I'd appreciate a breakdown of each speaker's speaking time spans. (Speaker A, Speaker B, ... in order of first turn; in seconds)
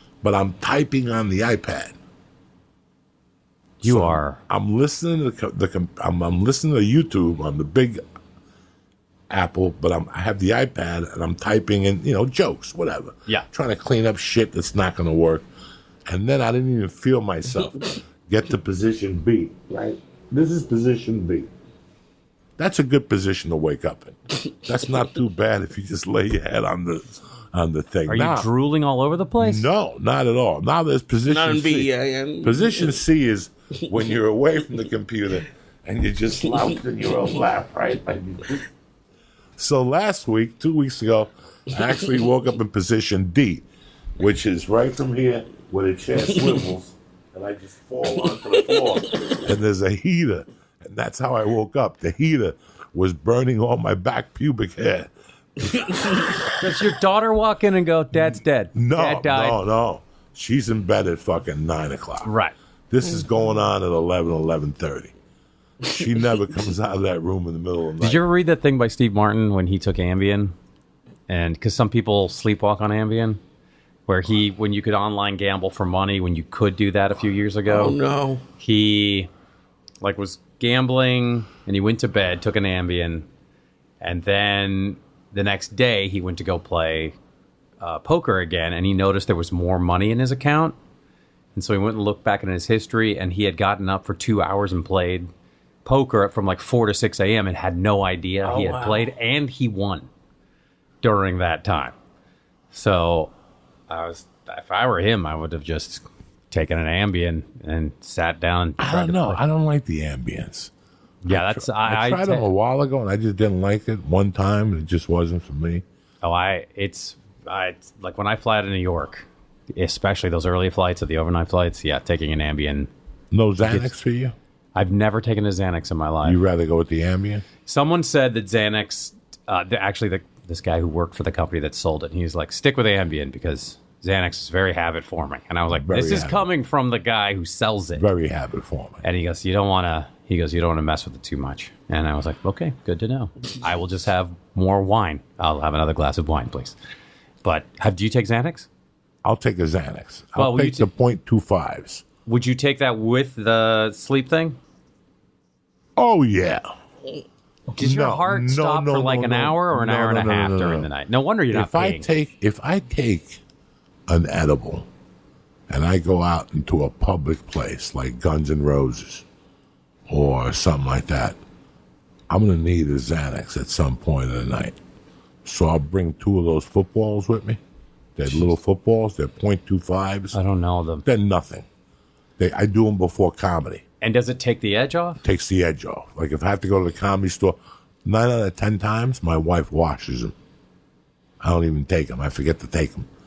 Speaker A: 0.2-2.0, 3.8-8.0, 9.3-15.5, 16.1-21.5, 22.6-28.5, 29.4-31.9, 32.4-38.6, 39.6-43.6, 44.2-56.6, 58.3-62.3, 62.9-65.1, 65.8-68.2, 108.8-110.7, 111.3-115.8, 123.3-124.3, 126.2-127.5, 135.7-136.5, 138.0-139.0, 149.2-152.1, 156.0-156.7, 157.8-160.9, 161.5-163.4, 164.1-164.9, 165.7-169.2, 170.1-171.4, 172.3-174.8, 175.4-177.6, 178.2-180.4, 181.0-181.7, 182.4-183.8, 185.2-190.3, 191.4-193.1
Speaker B: 3.8-4.4, 28.1-29.7, 56.6-59.6, 62.2-62.5, 68.0-70.5, 71.3-73.4, 74.1-78.0, 78.6-79.3, 80.0-83.3, 84.0-87.2, 87.8-90.8, 91.5-95.3, 95.8-100.1, 101.0-102.0, 102.7-103.3, 103.9-109.4, 111.2-112.5, 116.2-122.9, 123.6-123.9, 124.8-126.4, 127.7-138.1, 139.0-146.8, 147.4-148.7, 150.4-150.9, 152.3-154.6, 157.7-162.1, 180.3-181.1, 184.0-185.2
Speaker C: 31.3-33.0, 77.7-78.4